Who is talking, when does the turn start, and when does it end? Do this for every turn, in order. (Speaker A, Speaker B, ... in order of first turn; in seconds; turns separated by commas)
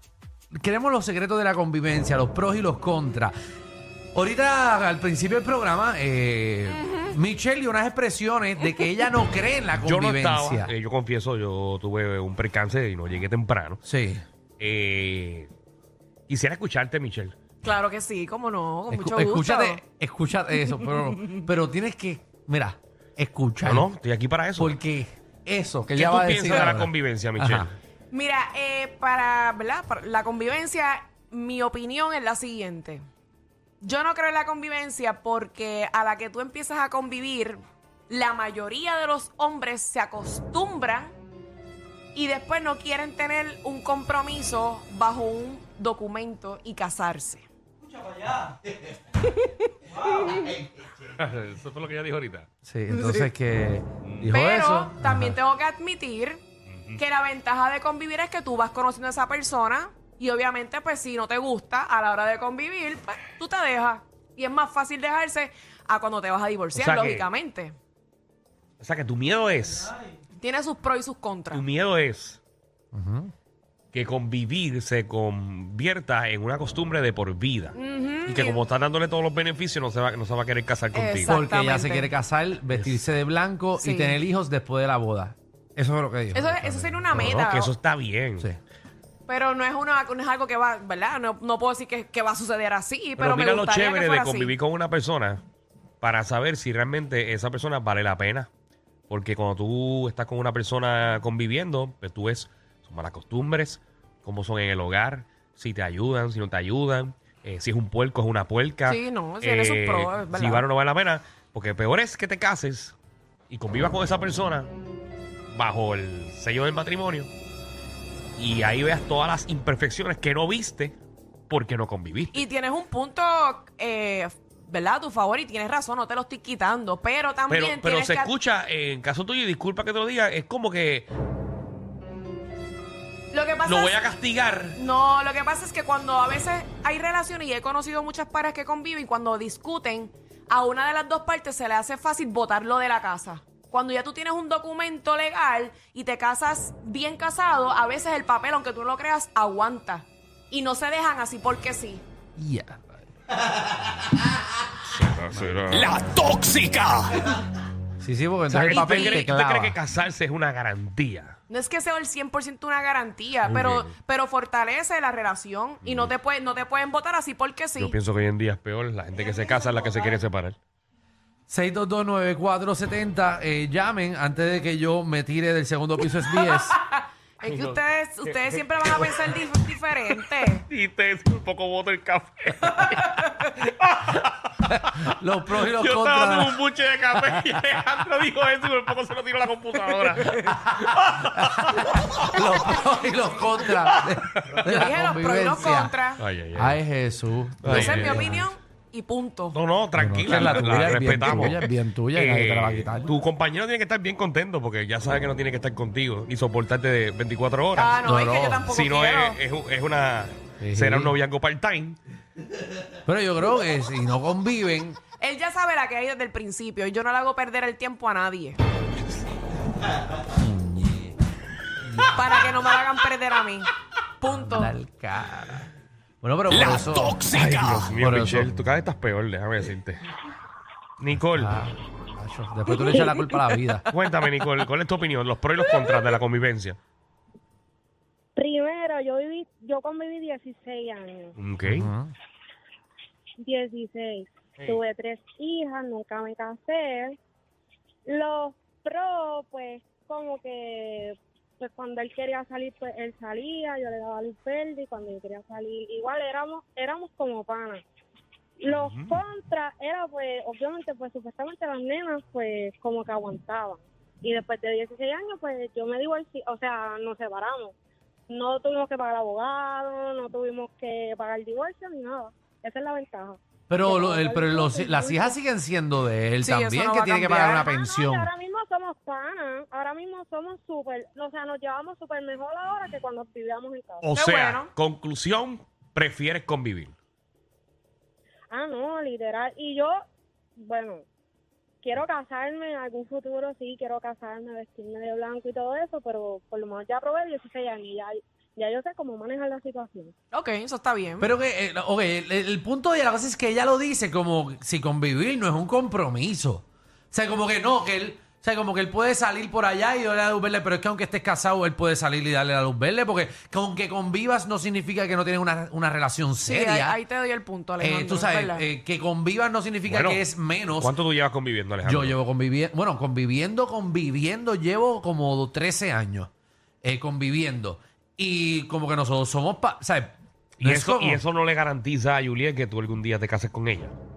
Speaker A: 0.5-3.3, Speaker A: 4.1-10.7, Speaker B: 6.7-7.1, Speaker C: 9.8-13.8, Speaker A: 13.8-14.2, Speaker C: 14.6-15.5, Speaker C: 16.3-17.3, Speaker B: 17.6-19.8, Speaker A: 18.9-23.9, Speaker B: 20.6-21.5, Speaker C: 23.6-24.8, Speaker A: 24.6-27.7, Speaker C: 25.9-27.7, Speaker B: 28.1-33.0, Speaker B: 33.8-41.1, Speaker B: 42.1-47.5, Speaker B: 49.1-50.4, Speaker C: 51.1-52.5, Speaker A: 52.6-55.4, Speaker B: 52.9-53.3, Speaker C: 54.0-54.3, Speaker B: 54.3-56.4, Speaker C: 56.7-57.0, Speaker B: 57.0-67.7, Speaker C: 66.7-67.3, Speaker C: 68.8-69.9, Speaker B: 70.4-71.6, Speaker C: 71.5-72.4, Speaker A: 72.9-73.3, Speaker C: 73.9-81.3, Speaker B: 77.7-78.6, Speaker B: 80.9-82.1, Speaker A: 81.2-87.3, Speaker C: 82.7-83.0, Speaker B: 83.8-84.2, Speaker B: 86.3-87.7, Speaker C: 87.1-88.5, Speaker B: 89.3-94.5, Speaker C: 93.2-95.4, Speaker C: 96.0-98.5, Speaker C: 99.1-112.9, Speaker B: 108.8-110.7, Speaker C: 113.5-114.7, Speaker C: 115.5-117.3, Speaker C: 118.4-121.0, Speaker C: 121.5-122.4, Speaker B: 122.3-128.3, Speaker C: 127.5-131.1, Speaker B: 133.3-134.0, Speaker C: 133.6-134.8, Speaker B: 134.8-152.0, Speaker A: 152.4-152.9, Speaker C: 154.9-157.3, Speaker A: 155.3-155.8, Speaker A: 158.0-159.8, Speaker C: 158.5-161.4, Speaker B: 158.7-159.3, Speaker B: 161.5-167.9, Speaker C: 163.4-163.9, Speaker C: 165.8-166.1, Speaker C: 167.8-170.6, Speaker A: 171.5-176.8, Speaker B: 176.3-180.6, Speaker C: 177.4-179.3, Speaker C: 180.7-185.0, Speaker B: 183.0-183.5, Speaker A: 185.0-186.6, Speaker C: 185.6-192.1, Speaker A: 187.2-187.8, Speaker B: 190.0-190.4, Speaker A: 190.4-195.9, Speaker C: 193.8-194.7, Speaker B: 194.6-196.2, Speaker C: 196.2-196.8, Speaker A: 196.5-198.5, Speaker C: 197.6-198.3, Speaker B: 197.7-199.6, Speaker C: 199.5-201.6, Speaker A: 199.9-203.1, Speaker C: 202.1-208.0, Speaker B: 207.8-209.4, Speaker A: 208.0-208.7, Speaker C: 208.7-212.0, Speaker A: 210.6-211.2, Speaker A: 213.1-215.0, Speaker B: 215.2-218.6, Speaker A: 220.3-221.2, Speaker A: 221.8-222.5, Speaker B: 222.1-223.7, Speaker B: 224.2-224.7, Speaker A: 224.2-225.7, Speaker A: 226.2-228.7, Speaker C: 226.5-230.0, Speaker C: 231.0-231.5, Speaker A: 231.2-233.9, Speaker C: 233.9-236.8, Speaker D: 238.3-241.3, Speaker C: 241.4-241.9, Speaker A: 241.6-242.1, Speaker D: 243.4-247.2, Speaker D: 248.1-257.8, Speaker D: 258.6-267.7, Speaker C: 258.7-259.2, Speaker D: 268.3-275.4, Speaker A: 273.7-278.3, Speaker B: 276.4-277.7, Speaker D: 277.5-284.1, Speaker C: 284.0-286.9, Speaker B: 284.1-284.7, Speaker D: 288.5-289.9, Speaker D: 290.6-291.0, Speaker D: 291.8-300.1, Speaker B: 300.3-301.3, Speaker A: 301.2-317.0, Speaker B: 316.4-318.6, Speaker A: 317.8-320.9, Speaker C: 319.8-320.2, Speaker C: 320.8-322.2, Speaker A: 321.8-326.3, Speaker A: 326.8-331.2, Speaker C: 330.6-333.9